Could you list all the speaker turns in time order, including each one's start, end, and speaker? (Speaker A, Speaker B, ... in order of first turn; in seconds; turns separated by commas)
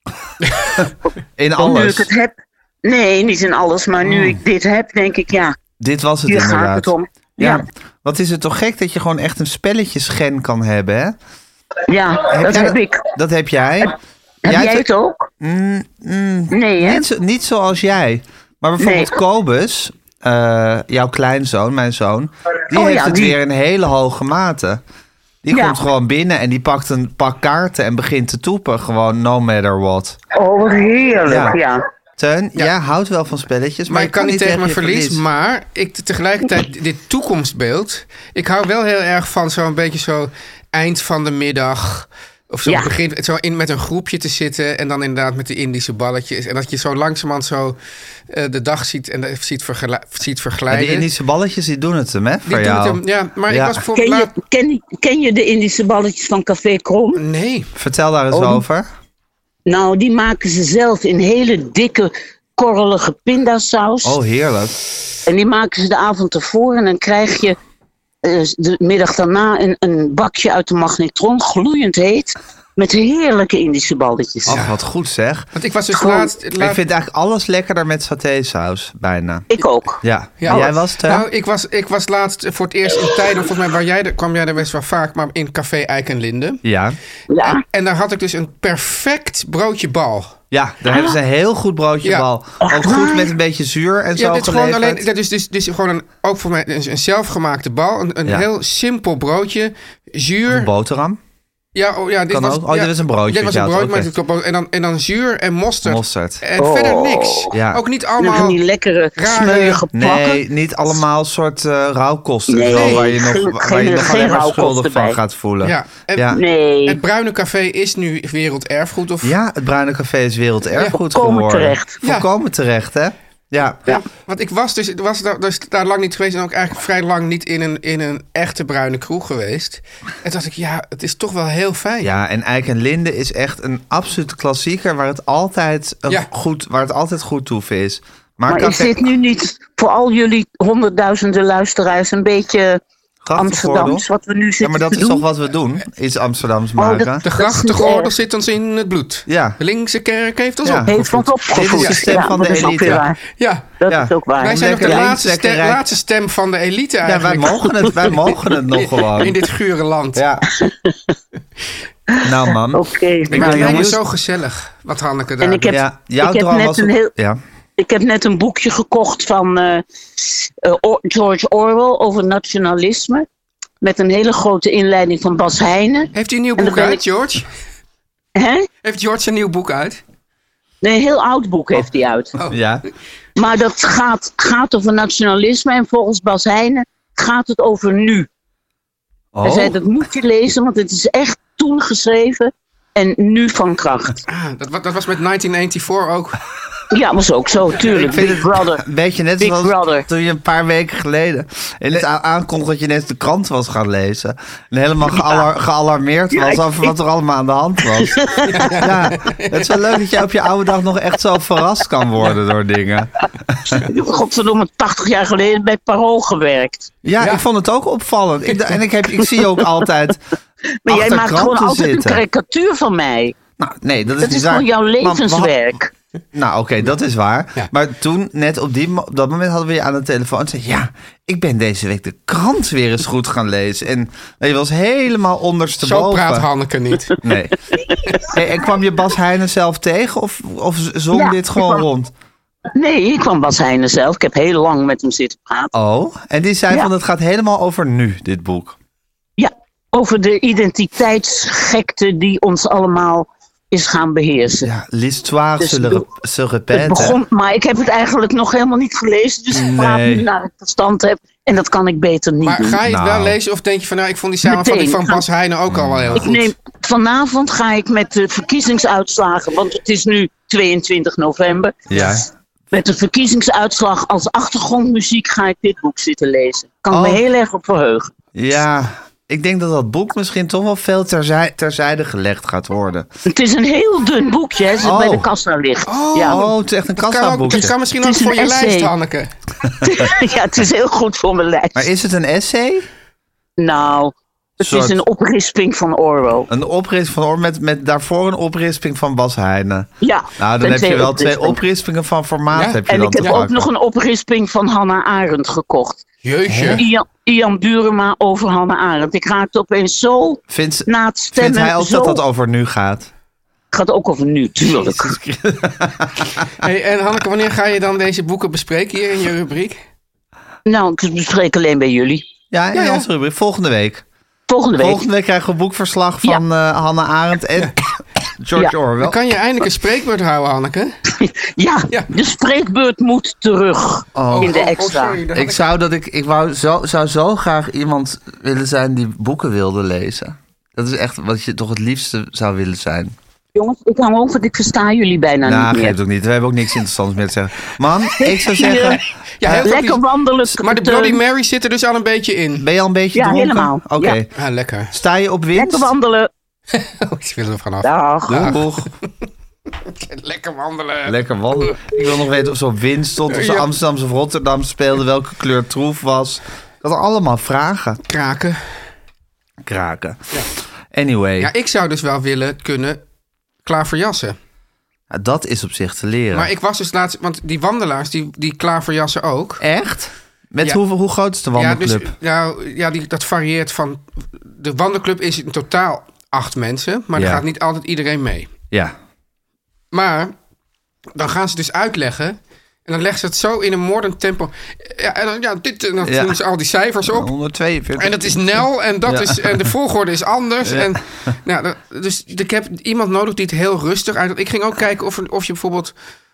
Speaker A: 1.4-2.1, Speaker B: 1.6-5.5, Speaker A: 5.8-11.2, Speaker B: 6.3-7.6, Speaker B: 11.9-13.1, Speaker A: 12.3-13.9, Speaker B: 14.4-15.3, Speaker A: 14.5-14.9, Speaker A: 15.4-24.8, Speaker B: 16.5-17.0, Speaker B: 18.8-19.1, Speaker B: 22.7-23.4, Speaker A: 25.4-30.2, Speaker B: 25.5-25.8, Speaker B: 30.3-31.8, Speaker A: 31.3-31.6, Speaker A: 32.2-35.2, Speaker C: 33.9-47.8, Speaker B: 42.7-42.9, Speaker C: 48.3-51.1, Speaker A: 50.7-53.8, Speaker C: 52.5-54.4, Speaker B: 54.0-57.2, Speaker C: 57.1-57.7, Speaker A: 57.8-58.9, Speaker B: 58.3-58.6, Speaker B: 59.7-64.2, Speaker A: 64.0-64.8, Speaker B: 65.3-67.6, Speaker B: 68.2-74.7, Speaker A: 74.5-75.5, Speaker C: 74.5-74.7, Speaker C: 75.5-76.8, Speaker B: 76.0-76.3, Speaker A: 76.6-79.5, Speaker B: 79.5-80.6, Speaker A: 80.0-81.3, Speaker C: 80.4-86.6, Speaker A: 86.6-87.0, Speaker B: 87.3-87.6, Speaker C: 87.4-90.4, Speaker A: 90.5-95.0, Speaker B: 92.6-93.3, Speaker C: 94.2-100.7, Speaker A: 100.5-101.2, Speaker C: 101.8-108.6, Speaker A: 102.3-104.1, Speaker A: 105.8-106.4, Speaker B: 106.6-107.5, Speaker A: 107.5-107.8, Speaker B: 108.2-110.4, Speaker C: 109.2-109.8, Speaker A: 109.5-116.4, Speaker B: 112.5-115.2, Speaker C: 112.7-113.1, Speaker C: 115.6-119.4, Speaker B: 116.3-117.0, Speaker A: 119.2-123.9, Speaker B: 121.0-122.0, Speaker C: 122.0-122.3, Speaker C: 123.9-132.1, Speaker A: 132.0-139.1, Speaker B: 138.5-142.8, Speaker A: 143.2-144.1, Speaker B: 143.4-145.2, Speaker A: 144.6-147.3, Speaker B: 146.8-148.1, Speaker C: 147.2-153.8, Speaker A: 149.3-149.6, Speaker A: 150.6-151.0, Speaker B: 150.9-153.2, Speaker A: 151.5-153.0, Speaker B: 153.8-155.1, Speaker A: 153.9-155.9, Speaker C: 154.4-160.2, Speaker A: 157.0-159.4, Speaker A: 160.2-160.5, Speaker B: 160.6-160.9, Speaker B: 162.1-163.9, Speaker A: 162.2-164.0, Speaker C: 163.3-165.8, Speaker B: 165.4-167.1, Speaker A: 165.7-167.4, Speaker B: 167.8-173.3, Speaker B: 173.8-177.0, Speaker C: 176.2-177.5, Speaker B: 178.3-178.7, Speaker C: 178.8-180.0, Speaker B: 180.8-182.3, Speaker A: 182.5-182.8, Speaker B: 183.4-188.3, Speaker A: 189.3-189.8, Speaker B: 189.4-194.2, Speaker C: 194.3-196.4, Speaker B: 196.9-198.8, Speaker A: 197.9-213.8, Speaker B: 199.4-200.1, Speaker B: 206.3-206.9, Speaker B: 208.0-208.9, Speaker C: 208.5-209.8, Speaker B: 213.8-216.9, Speaker A: 217.0-220.2, Speaker B: 220.8-223.4, Speaker A: 220.9-222.2, Speaker A: 223.6-225.6, Speaker B: 224.2-225.9, Speaker A: 226.3-236.5, Speaker C: 235.8-237.2, Speaker A: 237.2-237.6, Speaker B: 237.8-238.2, Speaker A: 238.2-242.1, Speaker B: 241.1-241.8, Speaker B: 242.8-245.7, Speaker A: 245.7-248.8, Speaker B: 249.4-254.7, Speaker A: 254.6-257.2, Speaker B: 255.6-256.1, Speaker B: 256.7-262.8, Speaker A: 259.5-260.3, Speaker C: 262.4-266.5, Speaker A: 262.9-263.4, Speaker B: 264.4-265.2, Speaker A: 265.7-266.2, Speaker B: 266.1-272.2, Speaker A: 271.9-272.3, Speaker C: 271.9-272.2, Speaker B: 272.7-278.1, Speaker A: 276.9-277.2, Speaker A: 278.4-283.1, Speaker B: 283.3-286.4, Speaker A: 284.8-285.3, Speaker C: 285.9-289.3, Speaker A: 286.2-287.8, Speaker B: 288.0-288.9, Speaker B: 289.8-291.9, Speaker A: 291.8-292.9, Speaker B: 293.6-296.5, Speaker A: 294.6-295.0, Speaker A: 296.5-303.7, Speaker B: 300.0-301.6, Speaker C: 302.5-303.4, Speaker B: 302.9-306.1, Speaker C: 306.2-306.9, Speaker A: 306.5-306.9, Speaker B: 306.7-312.2, Speaker A: 310.5-313.1, Speaker B: 313.7-315.1, Speaker A: 314.6-316.5, Speaker C: 316.6-319.8, Speaker B: 320.7-322.2, Speaker A: 322.5-324.0, Speaker C: 322.7-323.1, Speaker B: 324.5-325.0, Speaker A: 324.8-327.8, Speaker A: 328.4-329.2, Speaker C: 329.0-330.9, Speaker B: 331.2-335.2, Speaker A: 334.1-334.6, Speaker C: 334.3-335.6, Speaker A: 335.3-343.1, Speaker B: 343.6-346.0, Speaker A: 345.4-349.7, Speaker B: 348.2-349.0, Speaker C: 349.4-350.0, Speaker B: 349.6-351.2, Speaker C: 350.6-352.7, Speaker A: 352.6-354.3, Speaker B: 353.1-354.2, Speaker C: 354.4-354.9, Speaker A: 354.9-355.9, Speaker B: 355.6-356.3, Speaker C: 356.7-358.9, Speaker B: 357.8-358.5, Speaker A: 358.3-358.9, Speaker C: 359.9-362.0, Speaker A: 361.1-368.0, Speaker C: 363.3-363.7, Speaker C: 368.1-368.6, Speaker A: 369.6-370.4, Speaker A: 370.9-371.5, Speaker C: 371.4-373.0, Speaker C: 373.6-374.4, Speaker A: 375.1-376.5, Speaker C: 376.3-379.6, Speaker A: 379.6-382.1, Speaker C: 381.6-388.5, Speaker A: 387.2-387.4, Speaker C: 389.9-390.3, Speaker C: 391.1-397.3, Speaker A: 396.0-396.4, Speaker A: 397.1-399.7, Speaker C: 398.0-405.9, Speaker A: 400.6-401.0